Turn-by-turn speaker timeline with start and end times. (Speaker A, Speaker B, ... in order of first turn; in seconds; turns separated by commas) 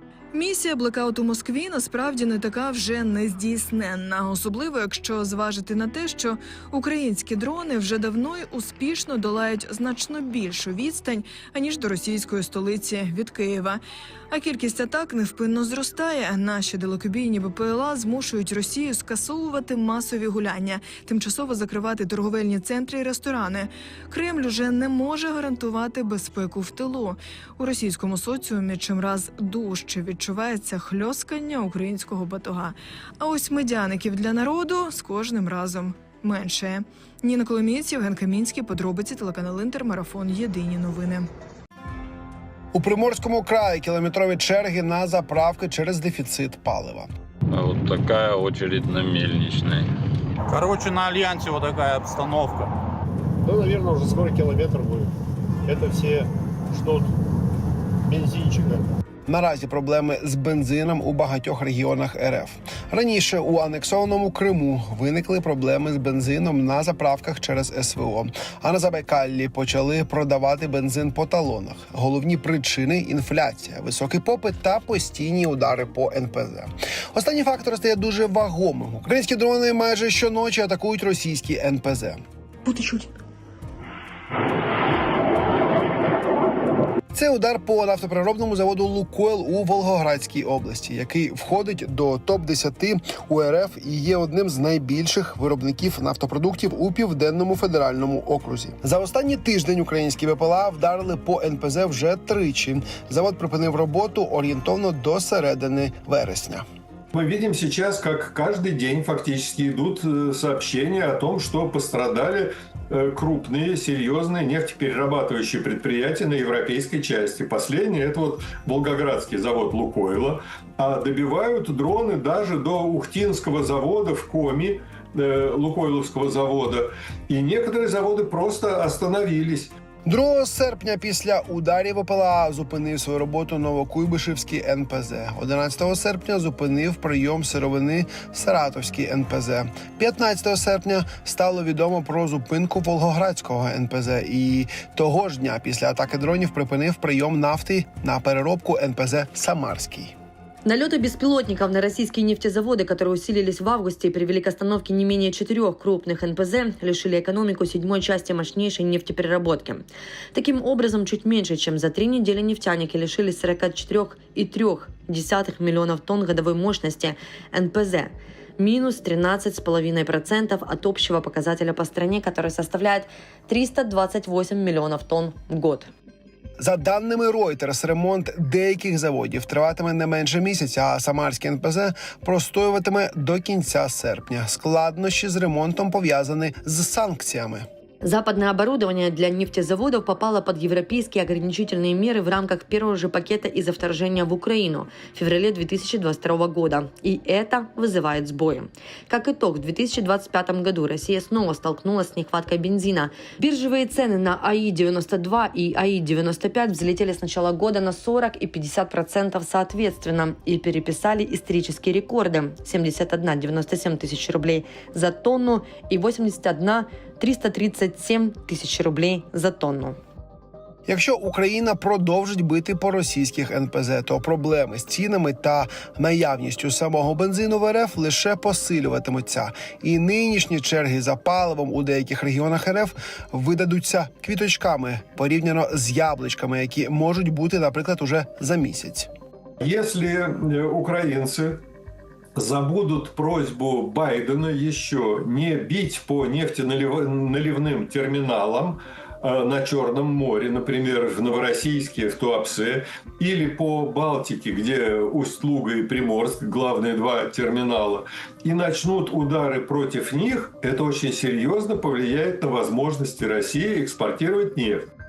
Speaker A: 0.3-41.2, Speaker B: 42.7-47.1, Speaker C: 47.5-49.9, Speaker D: 50.5-52.7, Speaker E: 53.4-55.1, Speaker E: 55.6-57.1, Speaker E: 58.0-58.9, Speaker B: 59.3-82.2, Speaker B: 87.1-106.6, Speaker F: 107.1-129.7, Speaker B: 130.0-150.1, Speaker G: 150.6-175.9, Speaker B: 176.6-187.7, Speaker G: 188.0-220.0, Speaker B: 220.9-239.1, Speaker F: 239.6-241.6, Speaker F: 242.3-264.9